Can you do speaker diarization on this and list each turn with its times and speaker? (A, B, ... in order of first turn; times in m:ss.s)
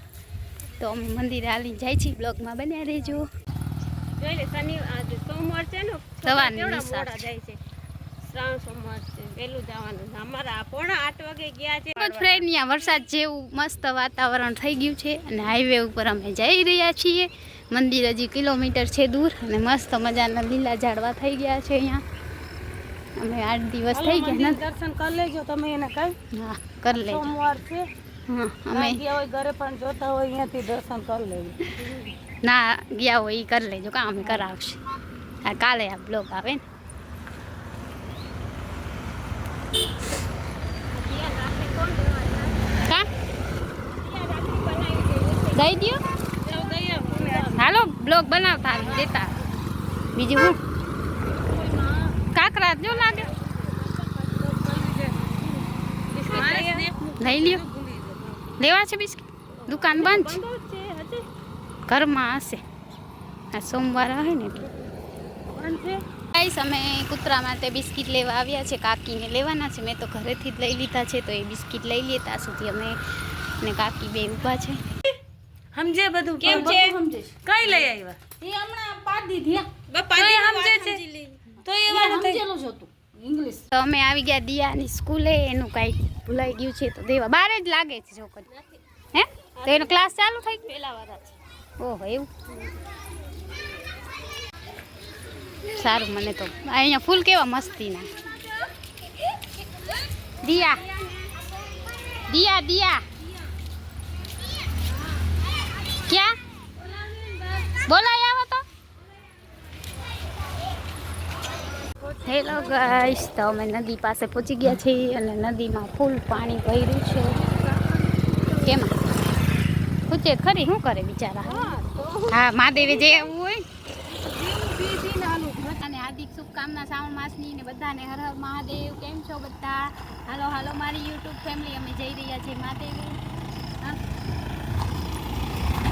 0:00.8-0:03.3 A
0:04.2-0:07.6 B
0:06.2-0:07.3 A
0:08.3-0:12.5 B
0:12.0-0:22.0 A
0:23.2-0:24.6 A
0:23.9-0:26.2 C
0:26.3-0:27.3 A
0:26.9-0:27.8 C
0:28.3-0:29.0 A
0:28.7-0:32.1 C
0:32.4-0:34.8 A
0:34.2-0:34.4 C
0:35.4-0:36.6 A
0:40.9-0:42.6 B
0:44.0-0:45.7 B
0:45.5-0:46.0 A
0:46.4-0:47.6 B
0:46.4-0:47.6 C
0:47.6-0:49.3 A
0:48.8-0:49.1 B
0:50.2-0:50.6 A
0:51.4-0:52.1 B
0:52.3-0:53.3 A
0:52.9-0:54.6 B
0:54.4-0:58.4 C
0:56.2-0:56.9 B
0:57.2-0:57.6 A
0:58.6-1:00.4 A
0:59.5-1:01.2 B
1:01.9-1:02.6 A
1:03.5-1:04.7 A
1:05.5-1:06.0 C
1:06.3-1:14.8 A
1:15.7-1:16.8 C
1:16.4-1:17.0 B
1:16.5-1:17.3 D
1:17.4-1:18.2 C
1:18.4-1:19.7 D
1:19.9-1:21.4 B
1:20.1-1:21.0 C
1:21.6-1:22.4 C
1:21.9-1:23.6 D
1:23.7-1:28.5 A
1:29.1-1:30.6 A
1:29.6-1:30.0 B
1:30.6-1:31.4 B
1:31.8-1:32.3 A
1:32.5-1:32.8 B
1:35.7-1:38.1 A
1:37.9-1:38.7 B
1:40.4-1:40.8 A
1:40.5-1:41.4 B
1:42.3-1:43.0 A
1:46.0-1:46.3 A
1:46.8-1:47.8 B
1:47.8-1:48.6 A
1:52.2-1:57.4 A
1:52.3-1:52.7 B
1:57.5-1:58.2 C
1:58.6-1:59.0 A
2:00.1-2:01.7 A
2:01.4-2:03.3 B
2:02.3-2:03.6 A
2:04.1-2:05.8 C
2:05.8-2:13.2 A